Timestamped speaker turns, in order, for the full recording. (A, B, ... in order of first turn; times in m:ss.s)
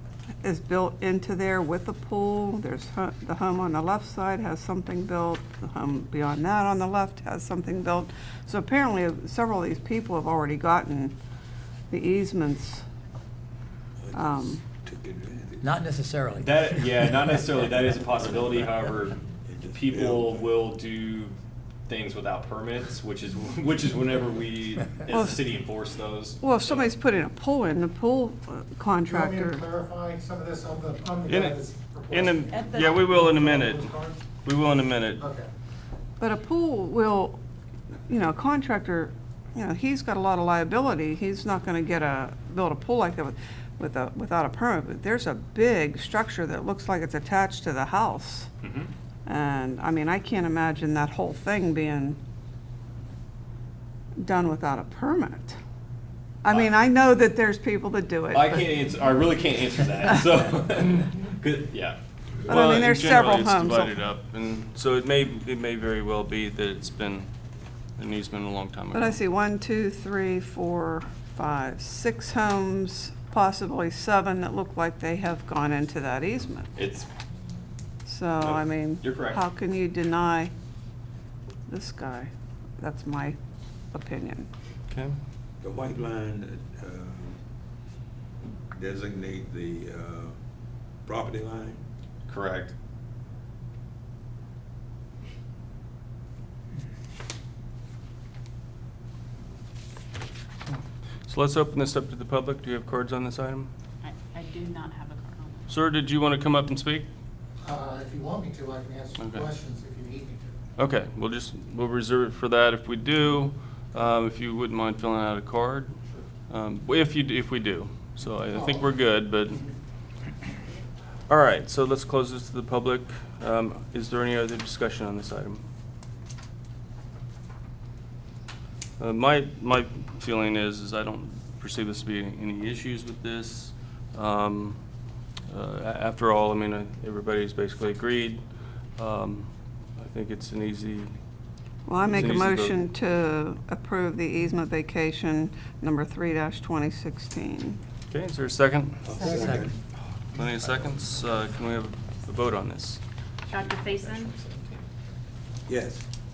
0:00.4-0:11.1 A
0:11.9-0:12.8 A
0:14.0-0:15.7 B
0:14.1-0:14.6 A
0:15.6-0:17.3 C
0:16.4-0:19.2 D
0:18.0-0:20.6 B
0:19.7-0:21.4 D
0:21.9-0:26.9 D
0:25.1-0:25.4 A
0:26.4-0:29.6 A
0:29.1-0:34.2 E
0:31.2-0:35.2 F
0:35.2-0:35.5 E
0:36.2-0:37.4 A
0:38.1-0:48.5 A
0:48.6-0:48.9 D
0:49.2-0:52.2 A
0:54.2-0:55.6 A
0:56.4-0:58.6 A
0:58.3-1:02.0 D
1:02.4-1:07.3 F
1:02.5-1:04.0 A
1:08.0-1:09.2 F
1:08.9-1:16.7 A
1:16.8-1:17.1 D
1:18.0-1:20.5 A
1:18.4-1:19.4 D
1:21.7-1:23.4 A
1:23.9-1:24.5 A
1:24.9-1:25.2 F
1:25.6-1:27.4 B
1:28.7-1:30.4 B
1:31.0-1:31.8 B
1:32.3-1:32.7 D
1:40.7-1:43.7 F
1:44.0-1:45.6 G
1:45.7-1:47.1 F
1:47.6-1:50.6 E
1:49.2-1:49.5 F
1:50.8-1:56.0 F
1:56.5-1:59.6 F
1:58.5-1:58.8 E
2:01.3-2:05.6 F
2:09.0-2:14.8 F
2:15.5-2:21.2 F
2:21.8-2:27.8 A
2:22.0-2:22.8 F
2:28.1-2:29.2 F
2:29.0-2:29.8 B
2:29.2-2:29.8 C
2:30.3-2:33.0 F
2:33.5-2:34.3 G
2:33.5-2:34.7 D
2:35.7-2:36.0 B